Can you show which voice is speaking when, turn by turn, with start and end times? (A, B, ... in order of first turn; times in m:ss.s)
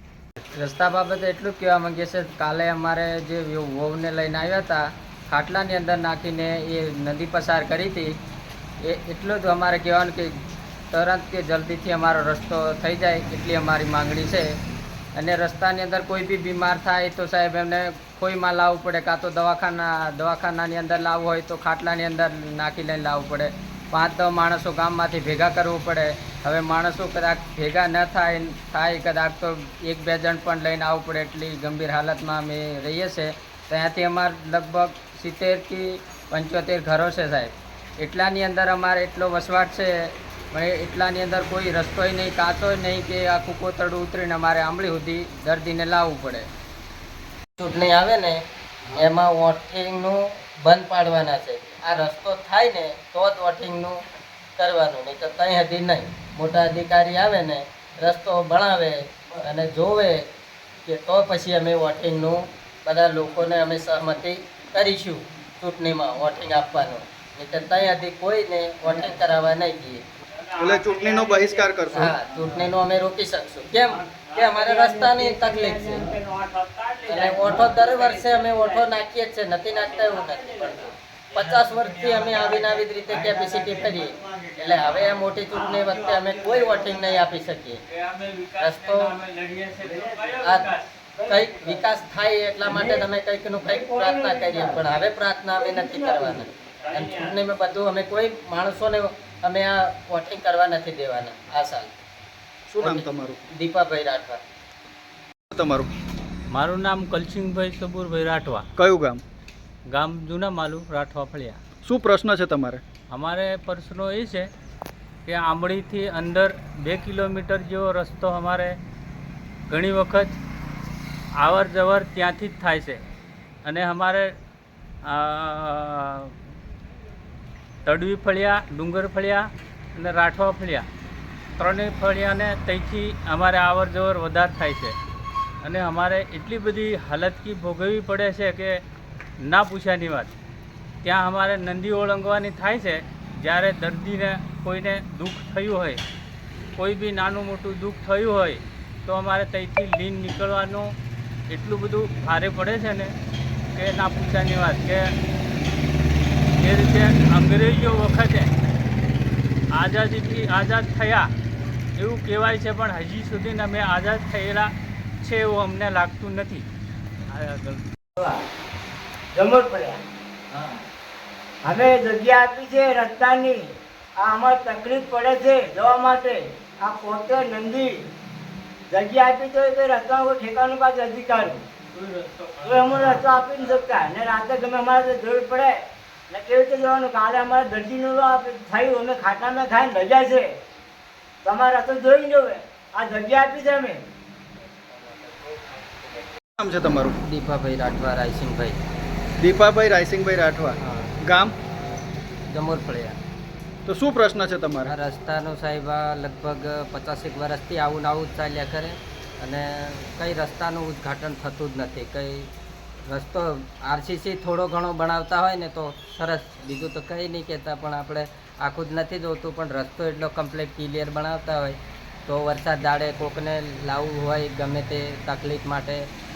0:00.6-0:08.1 A
0:08.8-0:10.3 A
0:10.9-0:14.5 A
0:15.1-0:46.5 A
0:47.6-0:48.4 A
0:48.9-0:54.0 A
0:54.6-1:00.3 A
1:00.8-1:10.0 A
1:10.6-1:12.1 B
1:11.0-1:11.6 C
1:11.9-1:16.1 A
1:13.9-1:14.7 D
1:15.2-1:15.6 D
1:16.1-1:18.5 D
1:17.1-1:27.8 A
1:27.9-1:30.9 D
1:28.6-1:29.1 A
1:29.8-1:30.5 C
1:30.4-1:30.7 A
1:31.2-1:31.8 C
1:31.3-1:42.0 A
1:32.7-1:33.0 C
1:33.6-1:34.8 C
1:35.6-1:36.4 C
1:36.8-1:37.4 D
1:42.7-1:43.4 B
1:42.8-1:44.4 A
1:45.5-1:45.9 B
1:46.5-1:48.6 D
1:48.8-1:49.2 B
1:49.9-1:51.6 D
1:51.8-1:52.8 B
1:53.1-1:54.5 D
1:55.2-1:58.8 D
1:59.7-2:00.4 D
2:01.4-2:03.0 D
2:03.6-2:04.3 D
2:05.0-2:06.3 D
2:07.8-2:10.9 D
2:11.6-2:15.0 D
2:15.6-2:18.8 D
2:19.4-2:20.3 D
2:21.0-2:26.0 D
2:26.8-2:31.0 D
2:31.5-2:33.1 D
2:33.7-2:35.1 D
2:36.6-2:38.5 D
2:39.7-2:41.3 D
2:42.0-2:46.7 D
2:47.3-2:47.9 D
2:48.2-2:48.4 C
2:49.3-2:50.0 C
2:51.6-2:58.1 C
2:58.9-3:01.6 C
3:01.9-3:03.8 D
3:02.6-3:10.6 C
3:11.4-3:14.0 C
3:15.0-3:16.2 A
3:16.6-3:17.2 B
3:17.2-3:18.8 A
3:19.4-3:21.5 B
3:20.8-3:21.1 A
3:22.5-3:23.2 A
3:23.8-3:24.9 B
3:24.8-3:32.5 A
3:33.1-3:46.0 A